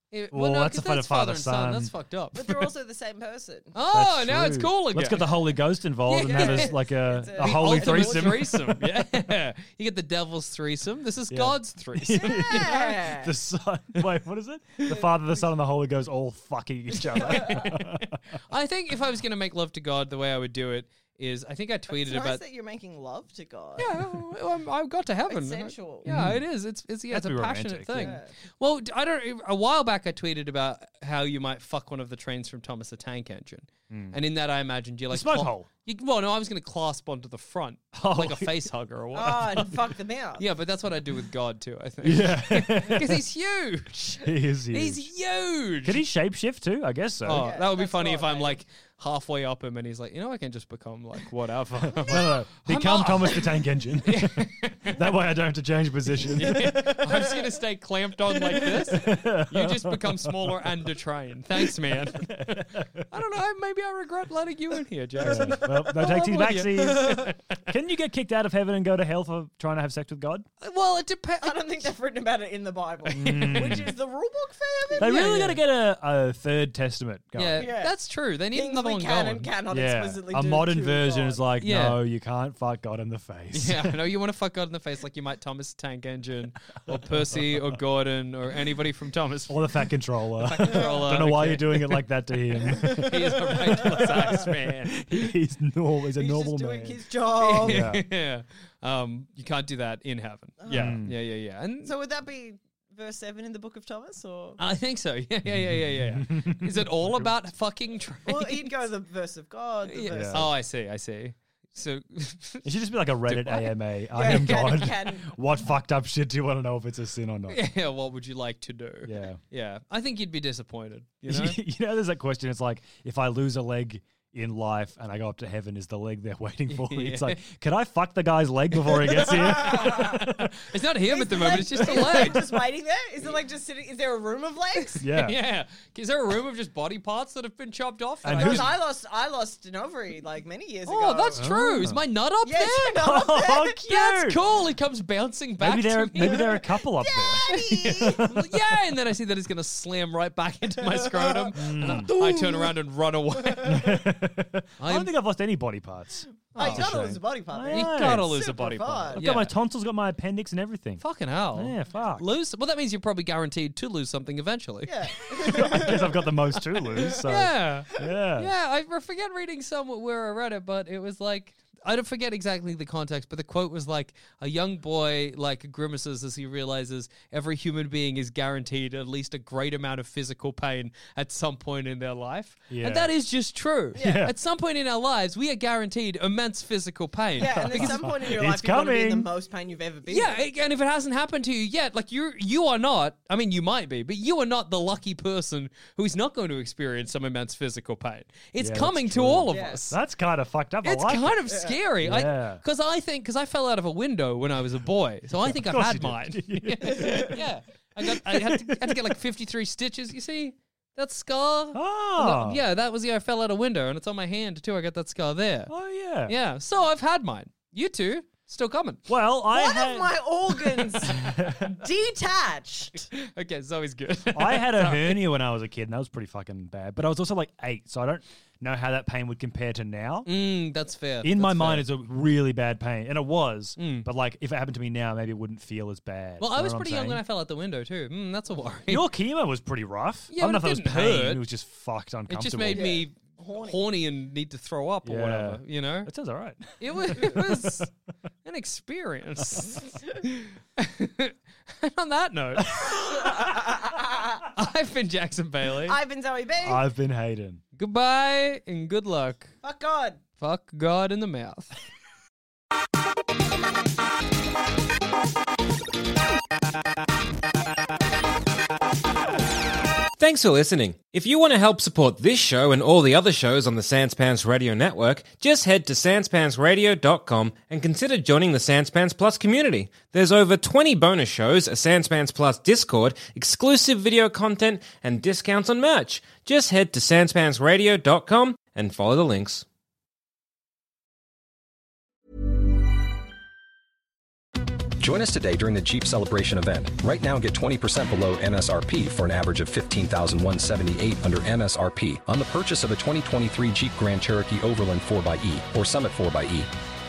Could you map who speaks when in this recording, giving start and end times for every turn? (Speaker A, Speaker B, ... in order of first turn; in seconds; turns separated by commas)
Speaker A: 0.1-2.7, Speaker B: 0.3-1.9, Speaker C: 2.3-3.7, Speaker A: 3.7-5.2, Speaker B: 3.8-8.9, Speaker A: 6.0-6.8, Speaker C: 6.2-8.3, Speaker A: 7.3-12.9, Speaker B: 11.3-18.4, Speaker C: 12.1-13.3, Speaker C: 17.1-17.7, Speaker A: 17.3-22.4, Speaker C: 21.9-24.0, Speaker A: 23.8-39.8, Speaker C: 25.3-26.1, Speaker B: 26.0-26.5, Speaker B: 27.1-28.2, Speaker C: 28.0-28.3, Speaker B: 33.9-34.2, Speaker B: 35.1-35.7, Speaker B: 37.9-38.6, Speaker C: 39.1-40.4, Speaker A: 40.4-46.0, Speaker B: 42.0-43.2, Speaker B: 44.2-45.1, Speaker B: 45.8-47.4, Speaker A: 47.2-53.5, Speaker C: 47.3-48.6, Speaker B: 51.7-57.0, Speaker C: 52.0-52.3, Speaker A: 54.0-55.0, Speaker A: 56.3-67.3, Speaker C: 56.6-57.4, Speaker C: 58.4-58.9, Speaker B: 58.9-60.7, Speaker B: 62.1-63.0, Speaker C: 65.2-67.4, Speaker B: 65.2-70.5, Speaker A: 70.6-71.7, Speaker C: 71.4-75.1, Speaker B: 73.1-73.9, Speaker A: 73.2-73.9, Speaker A: 75.0-75.6, Speaker B: 75.0-77.7, Speaker A: 77.3-79.5, Speaker C: 77.5-81.4, Speaker B: 79.7-84.0, Speaker A: 81.6-82.0, Speaker A: 83.5-92.0, Speaker B: 86.9-87.8, Speaker B: 89.5-97.0, Speaker C: 90.6-91.0, Speaker A: 92.6-95.1, Speaker C: 92.7-94.3, Speaker C: 96.2-97.8, Speaker A: 97.4-101.9, Speaker B: 97.6-98.0, Speaker C: 100.6-101.0, Speaker B: 100.7-101.2, Speaker C: 101.8-104.6, Speaker A: 104.6-108.7, Speaker B: 105.5-107.3, Speaker C: 108.2-110.5, Speaker A: 109.9-112.7, Speaker B: 110.1-110.5, Speaker B: 112.6-117.6, Speaker A: 113.3-113.7, Speaker C: 114.1-115.3, Speaker A: 117.5-121.6, Speaker B: 119.0-119.4, Speaker B: 121.3-130.7, Speaker A: 126.7-127.4, Speaker A: 128.9-130.1, Speaker C: 129.3-130.2, Speaker A: 130.6-132.4, Speaker C: 131.1-135.0, Speaker B: 131.9-132.5, Speaker B: 135.0-135.4, Speaker A: 135.0-138.8, Speaker B: 138.2-138.8, Speaker C: 138.2-141.5, Speaker A: 140.9-143.1, Speaker B: 141.3-142.0, Speaker C: 142.4-143.9, Speaker B: 142.9-144.4, Speaker A: 143.9-146.6, Speaker B: 145.6-147.6, Speaker C: 146.2-148.4, Speaker A: 147.4-153.9, Speaker C: 150.8-152.7, Speaker B: 151.5-152.1, Speaker C: 153.4-153.8, Speaker B: 153.6-158.4, Speaker A: 154.8-155.1, Speaker C: 156.5-159.2, Speaker A: 156.5-157.0, Speaker A: 157.7-159.5, Speaker B: 159.1-162.3, Speaker A: 161.0-165.9, Speaker C: 164.8-166.2, Speaker B: 165.4-168.5, Speaker A: 167.2-188.1, Speaker B: 182.7-183.1, Speaker B: 183.9-184.3, Speaker C: 187.4-190.4, Speaker B: 187.4-189.3, Speaker A: 190.1-200.0, Speaker B: 198.6-201.4, Speaker C: 199.5-199.9, Speaker A: 200.8-215.7, Speaker C: 201.5-201.8, Speaker B: 202.0-202.6, Speaker B: 205.3-207.4, Speaker B: 208.0-209.1, Speaker B: 211.7-212.6, Speaker B: 215.7-216.3, Speaker A: 216.2-219.0, Speaker B: 219.1-220.2, Speaker C: 219.5-223.1, Speaker B: 221.0-221.8, Speaker A: 223.1-225.2, Speaker B: 224.3-230.3, Speaker A: 230.2-231.9, Speaker B: 231.2-237.2, Speaker A: 233.8-234.1, Speaker A: 236.4-239.0, Speaker B: 238.9-242.9, Speaker A: 240.3-241.4, Speaker A: 242.3-246.1, Speaker C: 242.7-243.8, Speaker B: 245.0-247.8, Speaker A: 246.8-247.9, Speaker A: 248.4-253.6, Speaker C: 253.1-254.5, Speaker A: 254.5-256.0, Speaker C: 255.8-256.8, Speaker B: 256.6-257.6, Speaker A: 257.8-259.5, Speaker C: 259.6-260.2, Speaker A: 260.4-261.7, Speaker D: 270.2-289.6, Speaker E: 295.0-306.7